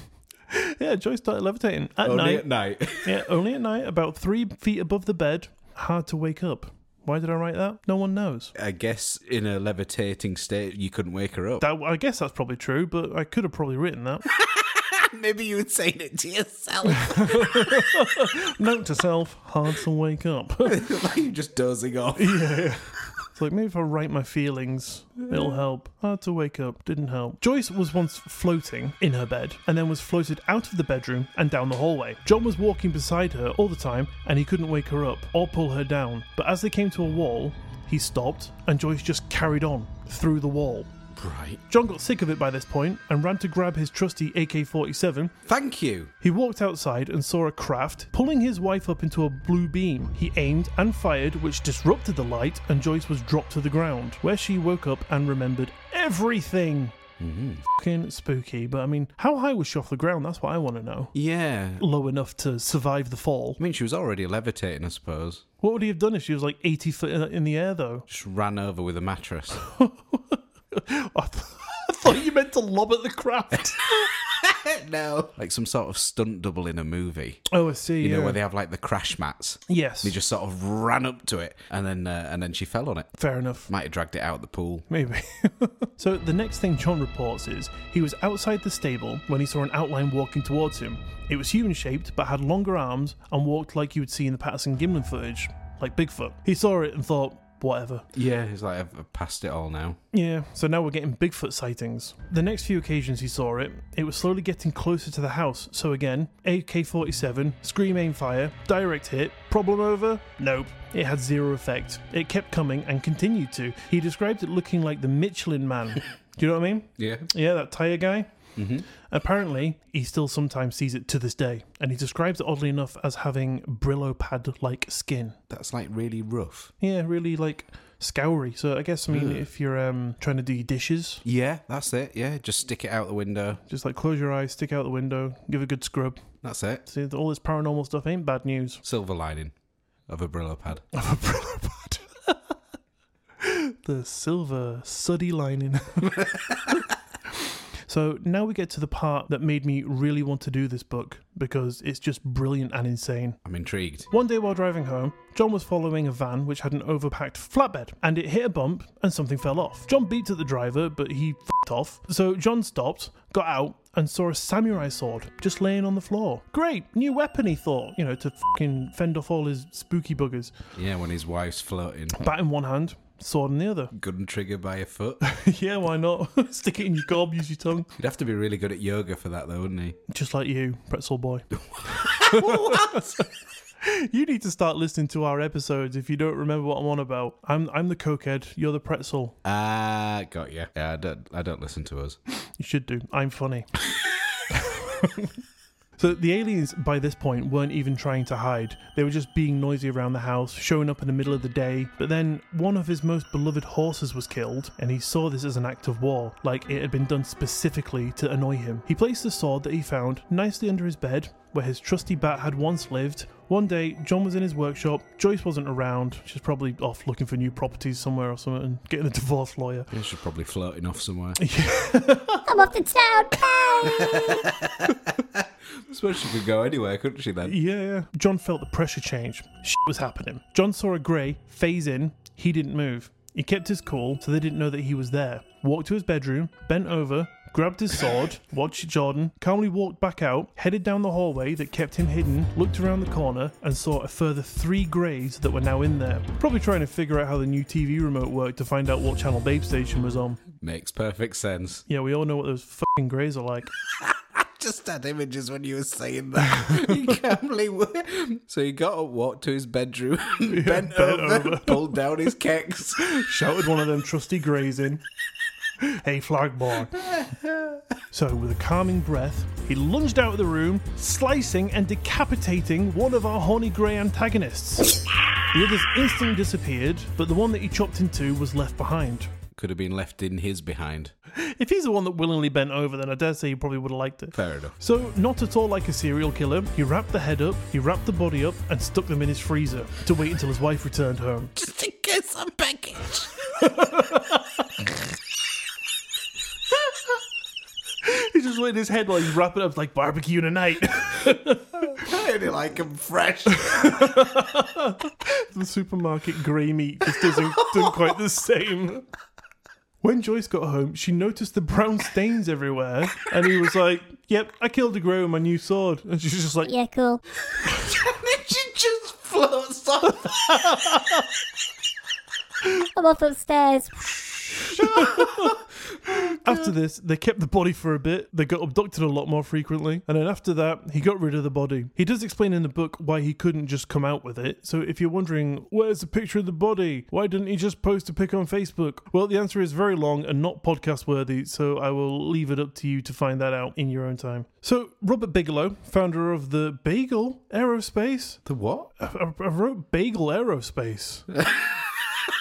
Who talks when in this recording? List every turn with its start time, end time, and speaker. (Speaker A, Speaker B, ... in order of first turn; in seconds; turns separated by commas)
Speaker A: 0.5-2.5, Speaker B: 2.0-3.2, Speaker A: 3.0-8.5, Speaker B: 8.5-11.6, Speaker A: 11.6-14.2, Speaker B: 14.3-18.1, Speaker A: 17.0-20.9, Speaker B: 20.6-22.5, Speaker A: 22.1-40.9, Speaker B: 41.1-41.6, Speaker A: 41.7-45.3, Speaker B: 45.5-46.1, Speaker A: 46.2-57.0, Speaker B: 57.2-57.6, Speaker A: 57.7-61.1, Speaker B: 61.1-61.8, Speaker A: 61.8-63.6, Speaker B: 63.6-65.4, Speaker A: 65.6-68.0, Speaker B: 68.1-69.6, Speaker A: 69.6-74.0, Speaker B: 74.0-77.4, Speaker A: 77.5-78.4, Speaker B: 78.0-83.1, Speaker A: 79.7-80.2, Speaker A: 83.2-83.7, Speaker B: 83.7-84.8, Speaker A: 84.9-98.0, Speaker B: 98.1-100.0, Speaker A: 100.1-118.3, Speaker B: 117.0-117.3, Speaker B: 118.5-118.8, Speaker A: 118.9-125.4, Speaker B: 125.5-126.7, Speaker A: 126.8-131.2, Speaker B: 129.1-129.5, Speaker B: 131.2-133.6, Speaker A: 133.7-136.2, Speaker B: 136.4-136.8, Speaker A: 136.8-138.8, Speaker B: 138.8-139.5, Speaker B: 140.1-140.8, Speaker A: 140.9-142.4, Speaker A: 143.4-146.7, Speaker A: 147.4-153.4, Speaker B: 153.4-154.1, Speaker A: 154.1-170.5, Speaker B: 170.7-172.2, Speaker A: 172.1-173.9, Speaker B: 173.9-175.2, Speaker A: 175.2-177.9, Speaker B: 178.0-180.0, Speaker A: 180.1-183.1, Speaker B: 181.6-183.2, Speaker A: 183.8-189.4, Speaker B: 189.4-192.2, Speaker A: 192.6-193.7, Speaker A: 194.5-195.3, Speaker A: 196.0-219.9, Speaker B: 219.9-221.4, Speaker A: 221.4-222.5, Speaker C: 222.5-224.4, Speaker B: 223.9-227.6, Speaker A: 227.4-250.4, Speaker B: 250.6-251.8, Speaker A: 251.9-253.7, Speaker B: 253.8-263.2, Speaker A: 256.4-257.1, Speaker A: 260.4-262.0, Speaker A: 263.0-265.0, Speaker A: 265.8-267.2, Speaker B: 266.9-267.8, Speaker A: 268.1-279.3, Speaker B: 279.5-281.1, Speaker A: 281.3-291.5, Speaker B: 284.3-284.8, Speaker B: 291.6-293.3, Speaker A: 293.6-294.4, Speaker A: 298.0-302.1, Speaker B: 301.8-304.1, Speaker A: 303.5-309.0, Speaker B: 307.2-307.9, Speaker A: 310.0-316.7, Speaker C: 316.6-317.2, Speaker B: 317.6-320.7, Speaker A: 320.5-321.1, Speaker C: 322.7-324.7, Speaker A: 324.7-325.5, Speaker B: 324.8-325.6, Speaker B: 326.1-326.7, Speaker A: 326.3-348.4, Speaker B: 348.4-348.9, Speaker A: 349.0-351.3, Speaker B: 351.4-351.7